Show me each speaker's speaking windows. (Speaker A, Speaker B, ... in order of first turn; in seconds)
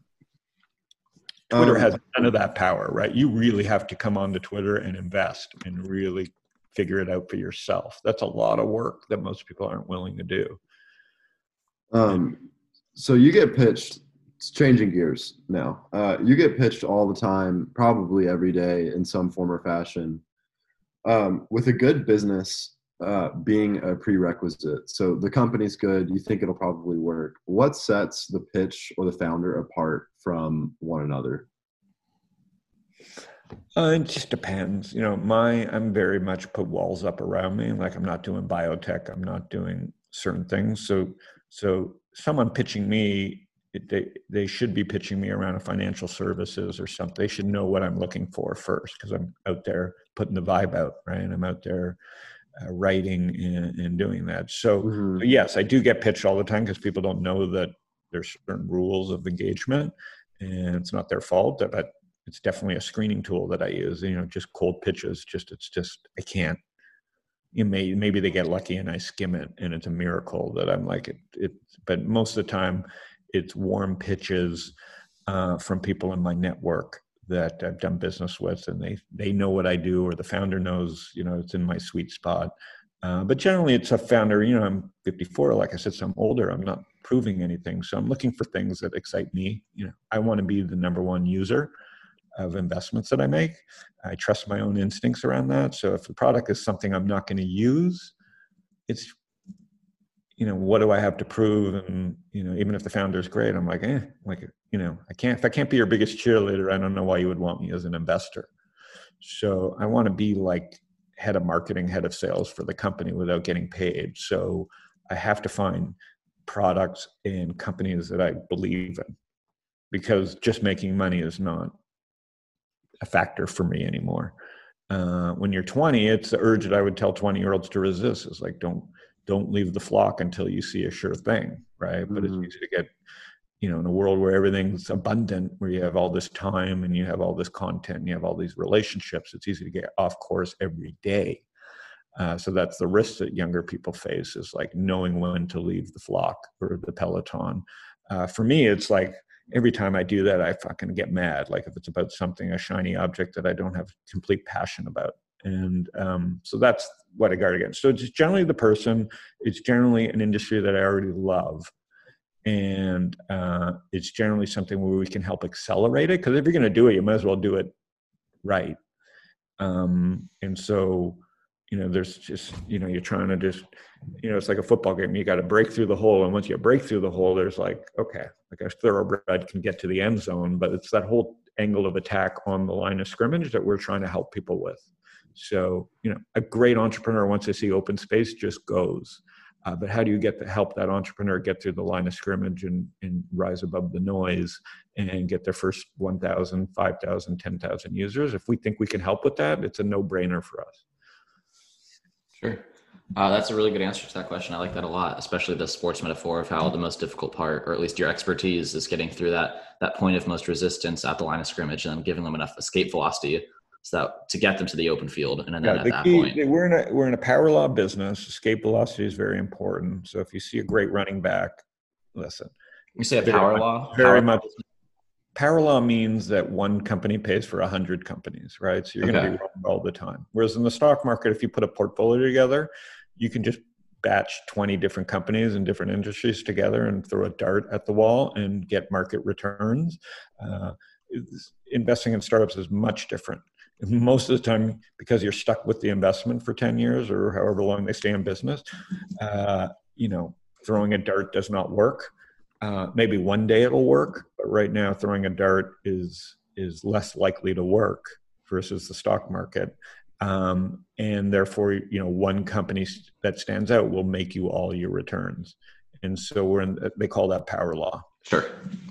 Speaker A: 1.5-1.9, 11.9-20.2, 21.0-31.5, 54.8-55.2, 132.1-132.5
Speaker B: 1.5-10.6, 33.7-52.0, 52.6-66.6, 67.5-74.7, 75.3-82.5, 83.0-91.7, 92.3-98.1, 98.9-99.2, 100.4-108.5, 109.2-119.1, 119.9-121.7, 123.0-124.3, 124.9-132.9, 133.6-141.4, 142.1-161.7, 162.4-167.7, 168.4-168.8, 169.6-173.7, 174.2-200.8, 215.6-221.6, 222.1-222.5, 223.2-224.5, 225.3-248.6, 249.2-268.1
Speaker C: 202.4-216.4, 223.0-224.4, 229.0-229.3, 268.3-268.7